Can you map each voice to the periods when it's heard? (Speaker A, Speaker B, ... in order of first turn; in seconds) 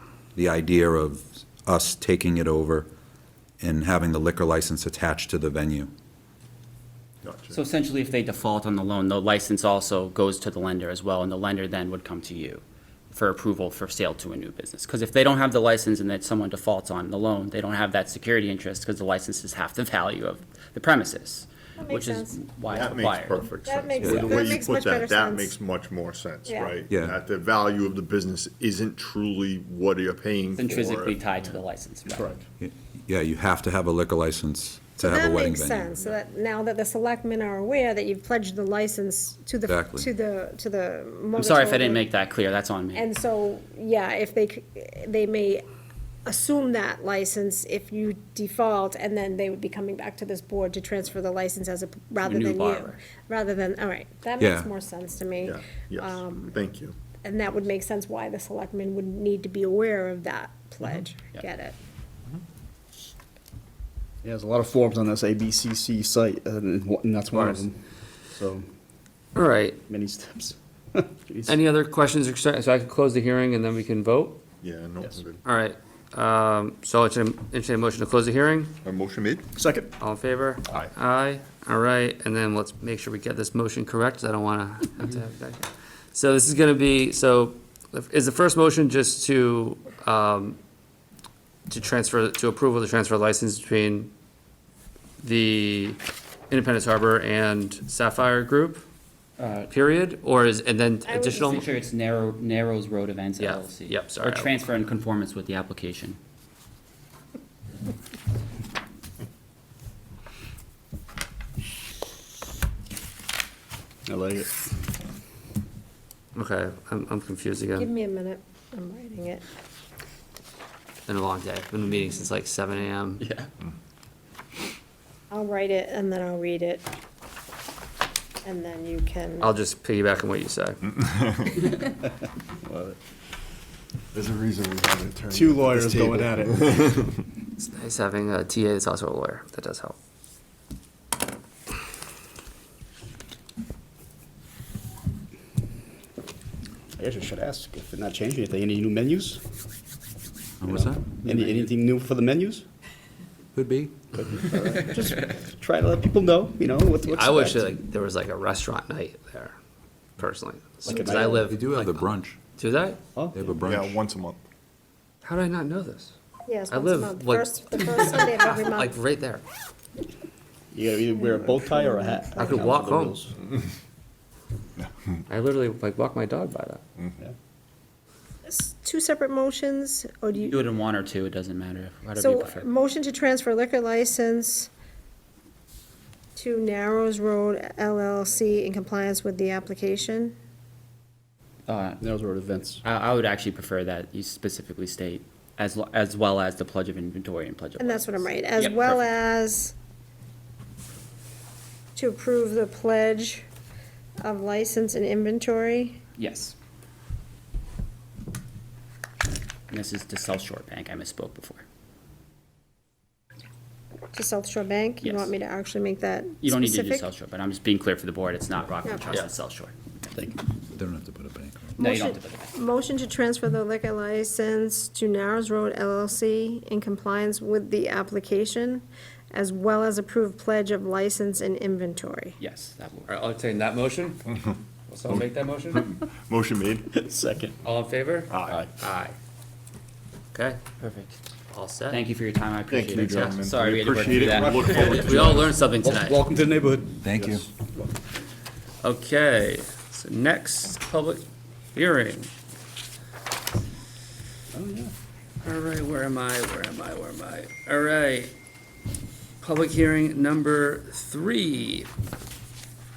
Speaker A: 0.3-2.9, 3.6-5.9, 26.9-27.1, 32.6-35.9, 39.7-40.1, 54.4-54.7, 150.6-151.0, 153.5-153.9, 161.4-162.4, 163.3-164.0, 220.7-221.8, 247.0-247.5
Speaker B: 7.2-7.6, 22.7-31.4, 55.4-57.0, 74.6-75.4, 78.8-79.5, 130.9-131.6, 134.1-136.9, 163.6-164.4, 235.1-236.9, 238.3-238.6, 242.7-245.7
Speaker C: 7.5-23.5, 30.6-32.4, 41.4-43.1, 52.2-52.9, 99.4-99.7, 101.3-106.2, 180.4-182.7, 191.7-192.0, 192.8-199.0, 206.2-206.6, 209.7-211.6, 215.0-215.3, 216.4-219.8, 221.8-222.6, 232.4-233.1, 238.8-239.2, 240.8-241.1, 241.9-246.2
Speaker D: 21.8-22.4, 23.6-25.6, 26.5-26.8, 35.0-42.1, 42.9-45.6, 46.3-56.6, 57.2-61.8, 101.1-101.7, 117.8-119.4, 125.3-126.8, 128.4-129.6, 161.0-161.4, 166.5-168.9, 171.1-172.6, 178.5-180.6, 182.2-184.7, 186.4-190.3, 197.8-199.7, 202.0-203.5, 204.2-206.0, 214.1-217.1, 218.8-219.1, 221.8-232.4
Speaker E: 32.1-32.4, 64.2-68.7, 69.9-71.6, 79.5-79.9, 114.1-114.5, 132.6-133.0, 135.3-136.8, 146.9-149.4, 150.7-152.7, 154.1-157.7, 160.9-161.4, 163.1-163.6, 170.7-173.3, 192.0-192.8, 236.9-237.6, 244.2-247.8, 254.5-254.9
Speaker F: 67.3-67.7, 69.3-69.8, 71.5-74.4, 75.4-78.8, 80.0-90.6, 91.7-94.1, 95.2-96.0, 96.5-98.8, 99.7-101.7, 103.4-104.5, 116.3-117.9, 121.1-123.3, 129.4-130.8, 137.6-139.9, 157.0-159.6, 160.2-163.0, 165.2-166.2, 166.7-169.4, 172.4-173.2, 175.3-176.8, 233.1-234.3, 234.9-235.9, 237.6-238.4, 240.3-240.6, 241.5-242.0, 248.8-251.2, 251.8-252.3, 255.4-258.3, 259.4-261.9